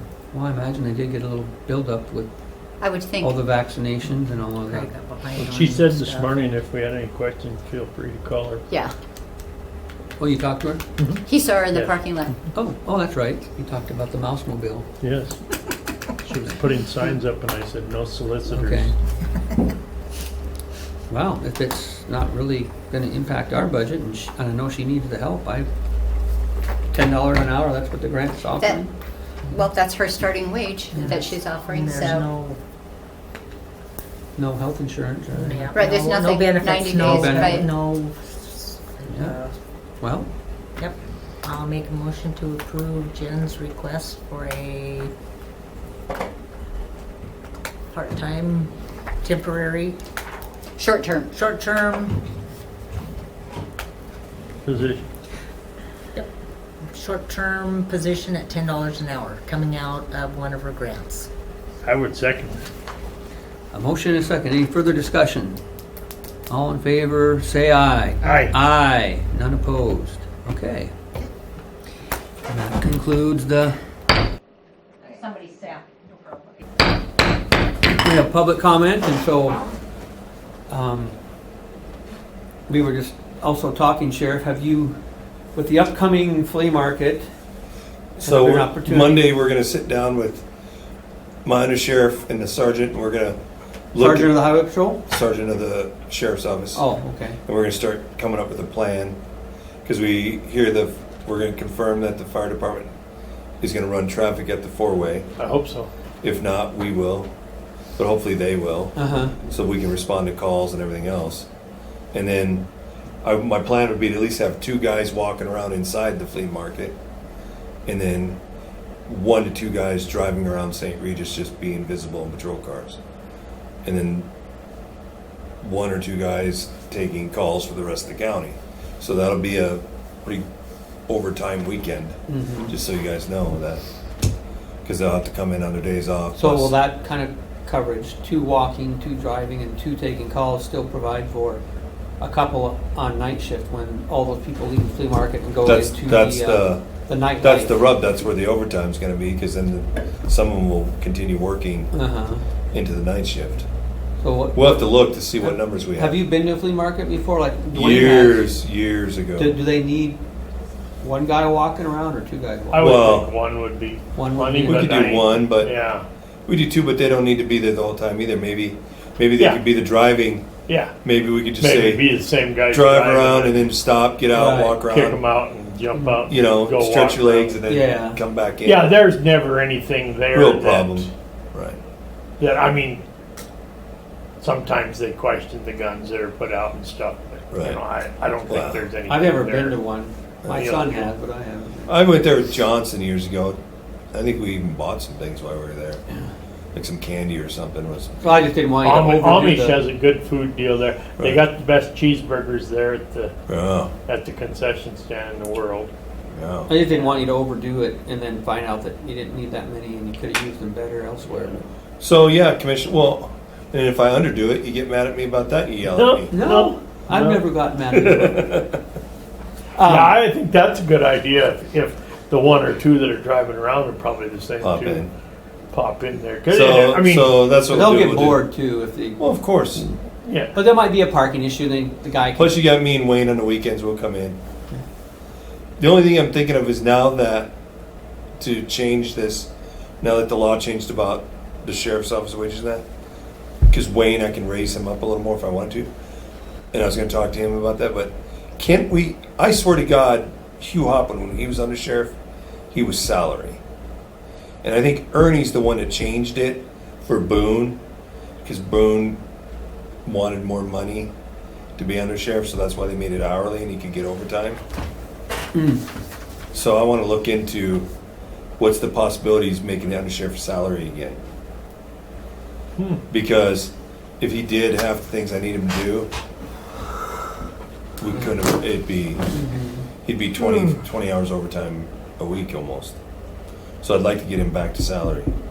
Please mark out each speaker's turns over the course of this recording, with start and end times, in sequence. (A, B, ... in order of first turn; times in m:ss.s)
0:00.3-0:02.3 A
0:02.8-0:03.3 B
0:03.2-0:04.9 A
0:04.6-0:06.3 C
0:05.4-0:08.6 D
0:10.2-0:10.8 A
0:11.0-0:11.9 D
0:11.2-0:12.4 B
0:12.5-0:14.9 A
0:15.0-0:15.4 D
0:16.2-0:18.9 D
0:18.5-0:18.9 A
0:21.1-0:25.7 A
0:26.9-0:28.9 A
0:29.5-0:32.3 B
0:30.9-0:32.6 C
0:34.4-0:35.7 A
0:35.3-0:39.4 C
0:35.7-0:37.6 B
0:36.9-0:37.7 A
0:39.1-0:39.4 A
0:40.0-0:40.3 A
0:40.8-0:45.1 C
0:47.9-0:48.7 C
0:49.2-0:50.0 C
0:50.8-0:51.3 B
0:51.3-0:52.2 C
0:54.6-0:55.0 D
0:56.9-1:01.3 C
1:01.8-1:02.6 D
1:03.7-1:05.6 A
1:06.5-1:10.9 A
1:08.2-1:08.6 D
1:12.5-1:13.8 A
1:15.0-1:15.8 C
1:17.8-1:19.6 A
1:20.7-1:21.2 A
1:22.7-1:25.0 A
1:25.5-1:27.3 A
1:28.2-1:30.4 E
1:28.2-1:29.2 A
1:31.4-1:33.4 E
1:33.9-1:34.5 E
1:34.0-1:35.0 A
1:35.0-1:36.8 E
1:36.7-1:37.4 A
1:37.4-1:39.2 E
1:39.8-1:42.9 E
1:43.6-1:45.3 E
1:45.4-1:45.9 D
1:46.2-1:47.3 E
1:48.0-1:51.5 E
1:49.0-1:49.3 A
1:52.1-1:52.6 E
1:53.2-1:57.0 E
1:57.8-1:58.4 E
1:59.1-2:03.0 E
2:03.8-2:04.3 E
2:05.6-2:10.4 E
2:11.1-2:13.8 E
2:12.3-2:12.7 A
2:14.8-2:16.7 E
2:16.3-2:21.6 A
2:22.2-2:27.7 A
2:25.6-2:26.9 E
2:27.4-2:31.9 E
2:31.9-2:32.4 A
2:32.7-2:33.6 E
2:34.2-2:38.5 A
2:34.5-2:36.2 E
2:37.7-2:39.6 E
2:39.4-2:40.2 A
2:41.0-2:42.9 A
2:42.7-2:46.0 D
2:42.8-2:43.3 E
2:44.1-2:45.0 A
2:44.6-2:45.7 E
2:46.5-2:52.0 E
2:50.7-2:50.9 D
2:51.6-2:53.6 D
2:52.7-2:55.2 E
2:54.3-2:54.8 A
2:54.4-2:57.6 D
2:55.9-2:56.2 A
2:56.3-2:58.9 E
2:57.7-2:58.2 A
2:58.6-3:01.1 D
3:00.3-3:01.8 E
3:02.4-3:03.0 D
3:04.4-3:09.8 D
3:07.5-3:07.8 E
3:08.5-3:08.8 E
3:09.0-3:12.1 A
3:10.4-3:10.8 E
3:10.5-3:11.1 D
3:11.9-3:13.6 E
3:14.1-3:16.0 E
3:16.7-3:18.3 E
3:18.2-3:19.8 A
3:18.8-3:23.3 D
3:23.5-3:23.9 E
3:24.0-3:25.9 D
3:26.3-3:26.7 E
3:26.7-3:31.6 A
3:26.8-3:27.2 D
3:32.0-3:36.3 E
3:35.9-3:37.5 D
3:36.3-3:38.5 A
3:37.9-3:38.8 E
3:39.8-3:40.2 A
3:39.8-3:45.0 D
3:44.6-3:45.1 E
3:45.7-3:47.4 D
3:46.5-3:48.4 E
3:47.7-3:49.2 A
3:49.2-3:49.9 E
3:50.2-3:50.6 D
3:50.5-3:52.5 A
3:52.4-3:54.4 E
3:55.8-3:57.5 E
3:58.4-3:59.5 E
4:00.0-4:02.8 E
4:03.7-4:05.9 E
4:06.7-4:12.1 E
4:12.7-4:13.6 E
4:14.6-4:17.8 E
4:18.4-4:19.2 E
4:20.0-4:21.1 E
4:21.8-4:24.6 E
4:25.5-4:25.8 A
4:26.5-4:27.8 E
4:28.6-4:31.2 E
4:32.8-4:33.0 D
4:33.1-4:36.1 E
4:38.0-4:39.3 E
4:38.1-4:38.3 A
4:39.3-4:39.9 A
4:40.0-4:43.0 E
4:43.8-4:45.3 E